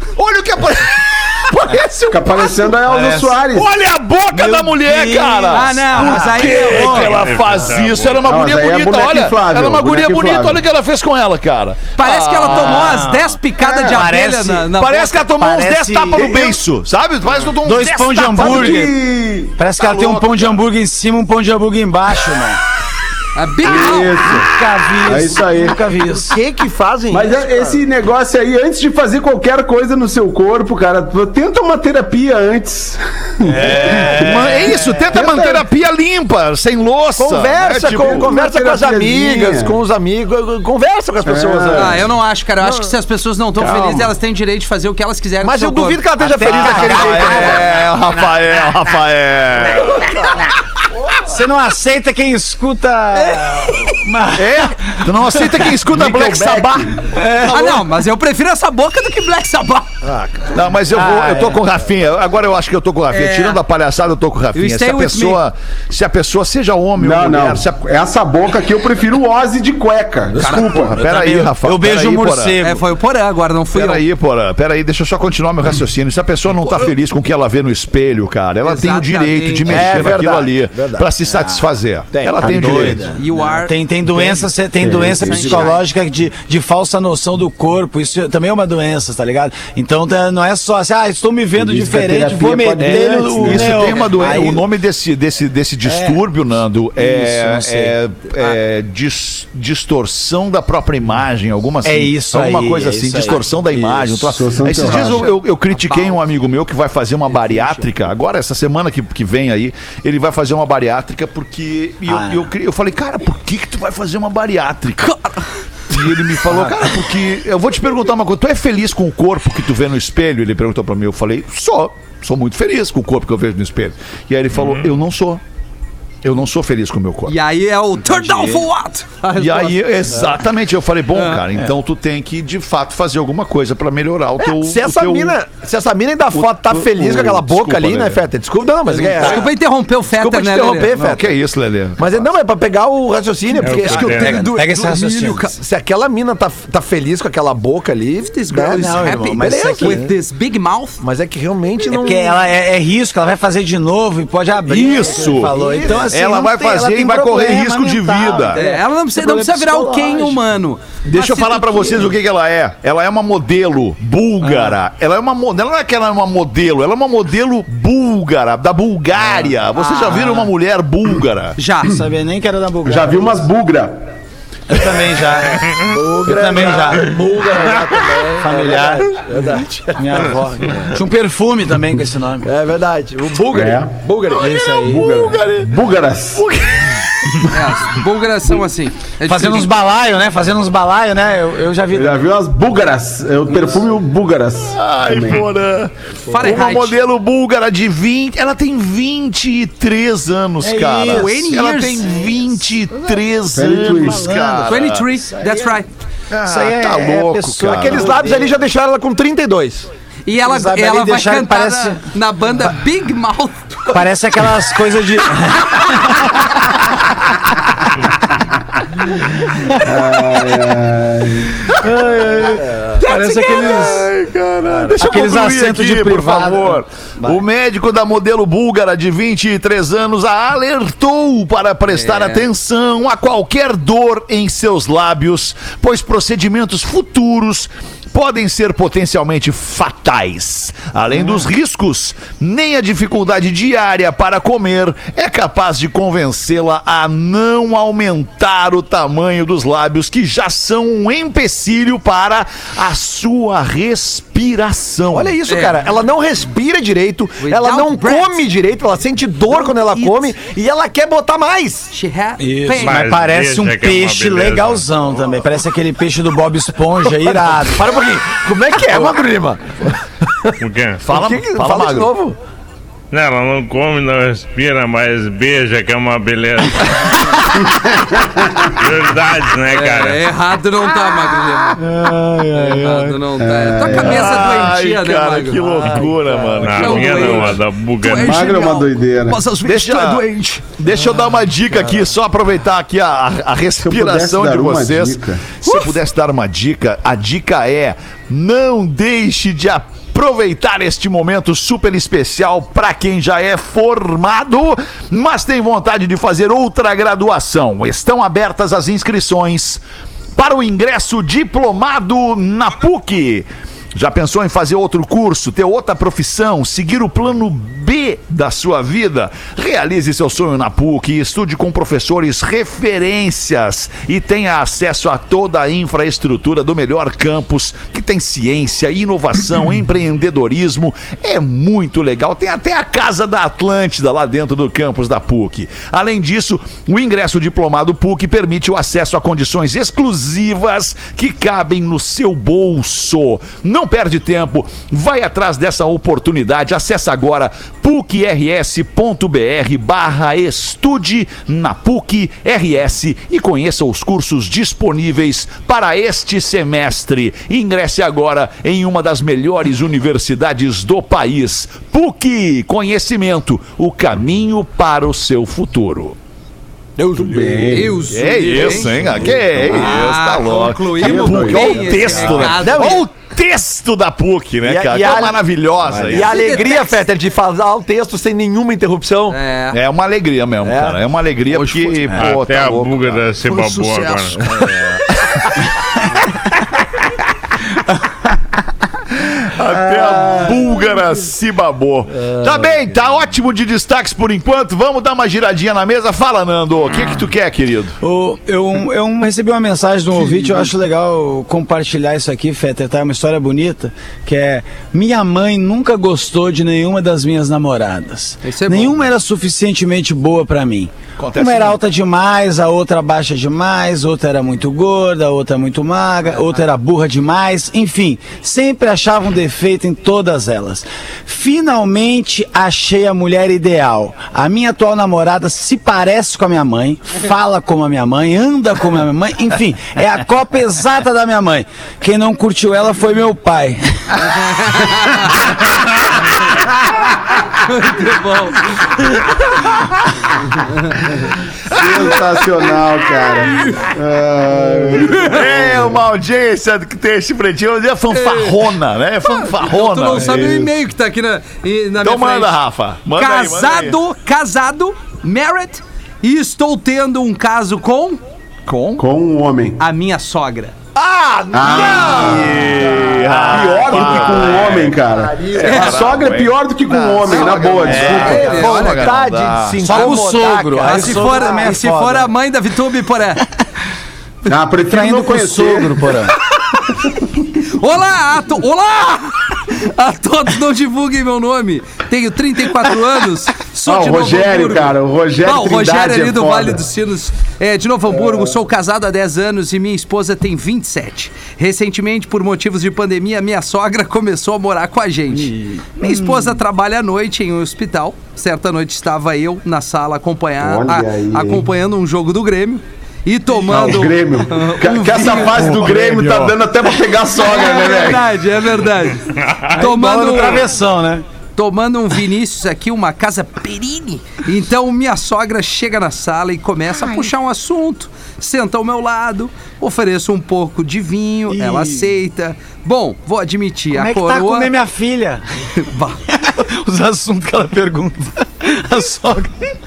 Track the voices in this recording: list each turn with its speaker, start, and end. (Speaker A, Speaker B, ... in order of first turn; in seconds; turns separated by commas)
Speaker A: 0.2-2.6, Speaker B: 2.1-3.7, Speaker C: 2.3-3.4, Speaker A: 3.5-13.0, Speaker C: 4.3-7.2, Speaker D: 5.5-7.2, Speaker E: 6.8-8.3, Speaker B: 8.3-10.6, Speaker D: 12.0-15.1, Speaker C: 12.4-14.7, Speaker A: 14.8-18.9, Speaker C: 15.4-16.6, Speaker C: 17.6-19.0, Speaker B: 18.4-19.6, Speaker C: 19.6-22.6, Speaker A: 19.8-20.6, Speaker D: 23.4-24.2, Speaker B: 23.6-24.5, Speaker C: 23.7-26.4, Speaker B: 25.1-25.8, Speaker F: 26.3-27.8, Speaker B: 27.1-35.6, Speaker C: 33.4-35.2, Speaker A: 33.6-38.3, Speaker F: 37.2-42.1, Speaker B: 38.0-39.8, Speaker B: 41.2-42.0, Speaker D: 41.7-47.5, Speaker F: 42.6-42.9, Speaker F: 43.6-44.1, Speaker F: 45.4-47.7, Speaker C: 46.2-48.9, Speaker A: 46.4-50.5, Speaker C: 51.2-55.7, Speaker F: 53.2-53.5, Speaker A: 54.3-56.9, Speaker B: 55.8-57.1, Speaker C: 57.1-57.9, Speaker D: 57.5-59.9, Speaker F: 60.0-60.5, Speaker A: 60.5-67.8, Speaker C: 60.9-61.6, Speaker D: 63.1-63.6, Speaker D: 64.5-65.4, Speaker B: 67.0-71.1, Speaker A: 70.4-72.6, Speaker C: 71.6-72.8, Speaker D: 72.6-74.0, Speaker A: 73.7-83.1, Speaker D: 76.6-76.9, Speaker D: 78.6-80.1, Speaker F: 79.7-81.1, Speaker C: 81.3-81.7, Speaker F: 82.1-83.0, Speaker C: 82.4-94.7, Speaker B: 82.4-83.0, Speaker D: 83.1-83.8, Speaker B: 84.8-85.7, Speaker D: 85.2-85.8, Speaker B: 91.6-94.6, Speaker A: 92.8-115.2, Speaker C: 95.8-96.2, Speaker C: 97.0-98.0, Speaker C: 101.8-104.3, Speaker B: 104.3-105.3, Speaker D: 104.9-106.2, Speaker D: 107.4-107.8, Speaker C: 112.1-112.5, Speaker D: 115.0-115.3, Speaker A: 115.9-125.4, Speaker C: 116.5-116.8, Speaker A: 126.2-127.3, Speaker D: 127.3-130.1, Speaker C: 128.1-128.7, Speaker A: 129.4-135.4, Speaker D: 131.1-131.4, Speaker F: 134.5-139.5, Speaker A: 136.3-138.2, Speaker C: 138.9-139.5, Speaker D: 139.2-140.9, Speaker F: 140.1-141.3, Speaker A: 140.9-142.3, Speaker F: 142.0-150.1, Speaker E: 143.6-144.4, Speaker D: 143.7-145.6, Speaker C: 143.9-145.4, Speaker D: 148.3-151.0, Speaker C: 148.5-150.0, Speaker F: 151.0-152.4, Speaker C: 151.9-160.4, Speaker A: 154.7-158.6, Speaker F: 155.2-156.1, Speaker D: 158.6-162.1, Speaker A: 161.1-171.6, Speaker C: 164.4-164.8, Speaker C: 169.8-170.5, Speaker D: 171.6-172.0, Speaker C: 171.8-173.3, Speaker B: 172.8-174.1, Speaker C: 174.7-177.2, Speaker F: 175.8-181.0, Speaker C: 178.4-179.1, Speaker C: 179.9-182.5, Speaker F: 182.4-184.6, Speaker B: 183.5-184.0, Speaker C: 184.3-185.4, Speaker B: 184.7-186.4, Speaker A: 184.8-185.8, Speaker A: 186.3-187.4, Speaker D: 187.5-189.7, Speaker C: 189.2-192.2, Speaker B: 191.9-195.4, Speaker A: 194.7-205.1, Speaker D: 196.3-197.0, Speaker C: 200.6-201.4, Speaker D: 201.1-202.2, Speaker B: 203.6-204.3, Speaker C: 203.9-205.8, Speaker D: 204.7-205.9, Speaker A: 206.3-208.2, Speaker C: 206.4-208.6, Speaker F: 207.7-209.9, Speaker D: 210.3-214.0, Speaker C: 210.4-212.1, Speaker C: 213.9-216.5, Speaker B: 219.8-221.6, Speaker A: 221.7-222.6, Speaker C: 221.8-224.1, Speaker D: 223.0-224.0, Speaker A: 223.4-255.4, Speaker C: 224.7-226.8, Speaker D: 231.9-232.5, Speaker F: 255.1-261.9, Speaker D: 255.5-255.8, Speaker D: 257.4-258.4, Speaker D: 259.5-260.3, Speaker D: 261.9-263.1, Speaker C: 262.4-268.0, Speaker E: 262.7-264.9, Speaker F: 267.6-270.6, Speaker E: 270.6-271.1, Speaker A: 271.0-272.1, Speaker F: 271.1-272.4, Speaker E: 273.1-277.4, Speaker B: 277.8-278.7, Speaker E: 278.7-280.2, Speaker D: 279.7-281.8, Speaker C: 281.8-283.2, Speaker D: 282.5-286.1, Speaker B: 283.4-284.3, Speaker A: 283.9-287.5, Speaker D: 286.6-290.6, Speaker E: 286.6-288.5, Speaker B: 288.1-289.4, Speaker A: 289.7-309.8, Speaker B: 293.8-295.5, Speaker D: 295.6-295.9, Speaker A: 310.4-366.2, Speaker F: 367.0-369.8, Speaker B: 367.2-368.0, Speaker D: 367.7-369.1, Speaker A: 368.1-376.3, Speaker D: 369.7-373.1, Speaker B: 371.0-372.6, Speaker F: 372.5-373.1, Speaker F: 374.6-379.4, Speaker D: 376.1-377.0, Speaker D: 379.3-379.8, Speaker A: 379.7-383.2, Speaker F: 380.6-381.0, Speaker D: 381.5-382.0, Speaker E: 382.2-384.5, Speaker D: 383.4-384.6, Speaker F: 384.4-384.7, Speaker A: 389.1-398.0, Speaker C: 390.0-390.5, Speaker C: 398.0-434.2, Speaker D: 408.4-409.0, Speaker A: 411.2-411.8, Speaker D: 434.6-435.3, Speaker D: 437.6-438.7, Speaker D: 440.6-441.0, Speaker A: 441.7-443.4, Speaker B: 441.7-445.9, Speaker D: 443.5-443.8, Speaker A: 444.9-450.5, Speaker D: 445.0-445.4, Speaker D: 448.1-448.7, Speaker D: 449.2-452.6, Speaker B: 450.3-450.6, Speaker A: 452.0-454.0, Speaker D: 453.2-458.2, Speaker A: 458.7-459.1, Speaker B: 459.0-459.8, Speaker D: 459.8-460.8, Speaker A: 460.9-470.0, Speaker B: 461.5-468.6, Speaker F: 461.9-462.6, Speaker D: 465.6-466.1, Speaker D: 467.3-469.2, Speaker F: 467.9-471.5, Speaker C: 469.8-472.3, Speaker D: 470.8-473.5, Speaker B: 474.5-476.0, Speaker C: 474.9-476.4, Speaker D: 477.7-505.6, Speaker B: 483.9-486.8, Speaker B: 488.1-488.5, Speaker C: 495.3-496.6, Speaker B: 500.6-501.7, Speaker B: 503.7-508.3, Speaker C: 504.9-506.5, Speaker D: 507.4-510.7, Speaker E: 509.4-509.7, Speaker C: 509.7-511.2, Speaker D: 511.6-524.7, Speaker C: 517.0-517.3, Speaker C: 521.5-522.1, Speaker C: 523.9-525.4, Speaker D: 525.8-526.2, Speaker C: 526.3-529.7